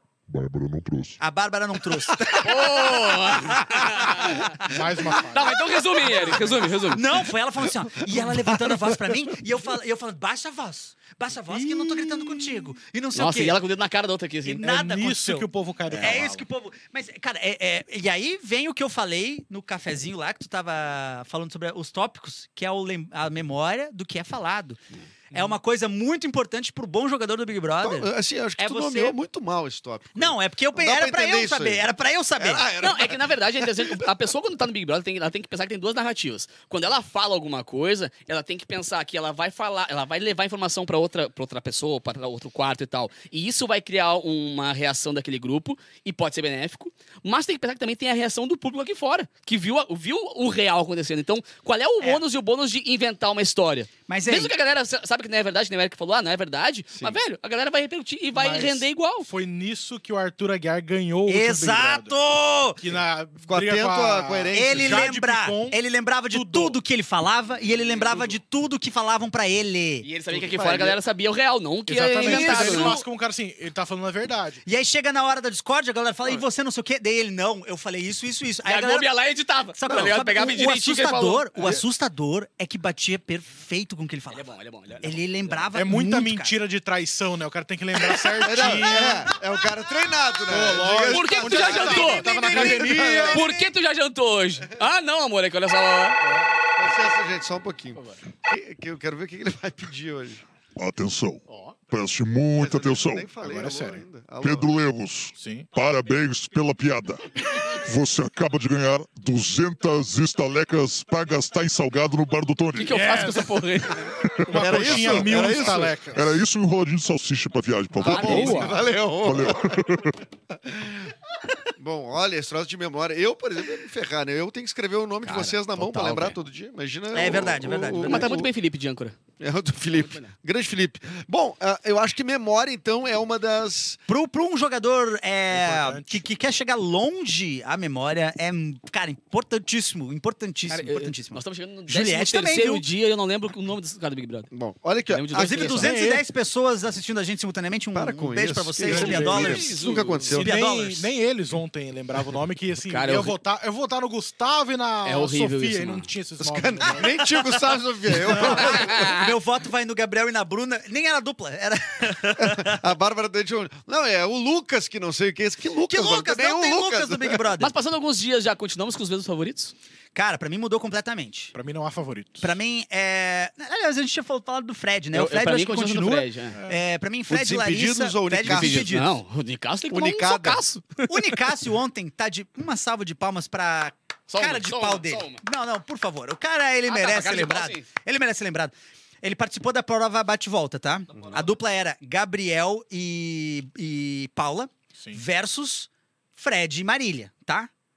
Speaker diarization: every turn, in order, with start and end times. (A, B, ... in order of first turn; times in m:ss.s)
0:00.3-0:01.2 A
0:01.2-0:04.7 B
0:02.4-0:04.5 C
0:04.6-0:05.6 D
0:05.3-0:07.0 C
0:06.9-0:13.6 B
0:08.1-0:08.9 E
0:13.1-0:14.6 C
0:14.4-0:24.8 B
0:14.6-0:16.4 D
0:15.9-0:16.2 C
0:25.3-0:29.2 B
0:27.8-0:31.8 E
0:30.1-0:32.6 B
0:32.4-0:34.1 E
0:32.8-0:59.3 C
0:54.1-0:54.5 B
0:58.3-1:02.2 D
1:01.3-1:02.8 B
1:02.8-1:06.8 D
1:03.4-1:05.1 E
1:04.5-1:10.1 B
1:10.0-1:13.0 C
1:10.3-1:11.0 E
1:11.9-1:14.6 D
1:12.2-1:13.0 B
1:14.6-1:19.1 B
1:18.6-1:21.5 C
1:19.8-1:24.5 B
1:24.3-1:25.7 C
1:25.0-1:26.6 B
1:25.7-1:29.3 D
1:28.4-1:33.4 E
1:30.5-1:33.4 D
1:31.1-1:36.2 C
1:32.2-1:33.7 B
1:36.2-1:36.5 D
1:36.8-1:40.4 E
1:40.8-1:43.3 A
1:42.5-1:44.7 E
1:43.4-1:44.0 D
1:44.4-1:53.0 A
1:45.3-1:45.7 D
1:52.7-1:54.1 C
1:52.9-1:53.6 D
1:54.2-2:00.1 A
1:54.5-1:56.4 D
1:54.5-1:56.0 E
1:58.0-1:59.8 E
1:58.0-1:58.7 C
1:58.2-1:58.8 D
2:00.5-2:01.1 E
2:01.8-2:08.5 E
2:05.2-2:06.4 C
2:07.1-2:08.4 B
2:08.0-2:09.2 C
2:09.4-2:14.0 E
2:09.9-2:10.3 C
2:14.1-2:22.8 B
2:15.5-2:16.2 D
2:20.7-2:24.5 C
2:24.5-2:25.8 E
2:25.1-2:25.9 C
2:25.3-2:29.7 B
2:25.7-2:26.2 D
2:27.9-2:30.5 E
2:28.8-2:29.7 D
2:28.9-2:30.4 C
2:30.3-2:37.2 D
2:30.3-2:31.1 B
2:32.9-2:33.3 C
2:35.0-2:36.1 C
2:36.4-2:39.0 E
2:38.3-2:42.8 B
2:38.5-2:39.3 C
2:42.4-2:47.4 E
2:45.9-2:47.7 B
2:47.6-2:49.7 C
2:50.1-2:51.5 B
2:51.5-2:52.5 D
2:52.4-2:59.2 B
2:55.1-2:56.6 C
2:56.5-2:56.8 D
2:57.3-2:58.9 E
2:58.4-3:01.4 C
2:59.9-3:00.6 E
3:01.0-3:17.7 B
3:04.3-3:05.4 C
3:06.9-3:07.8 C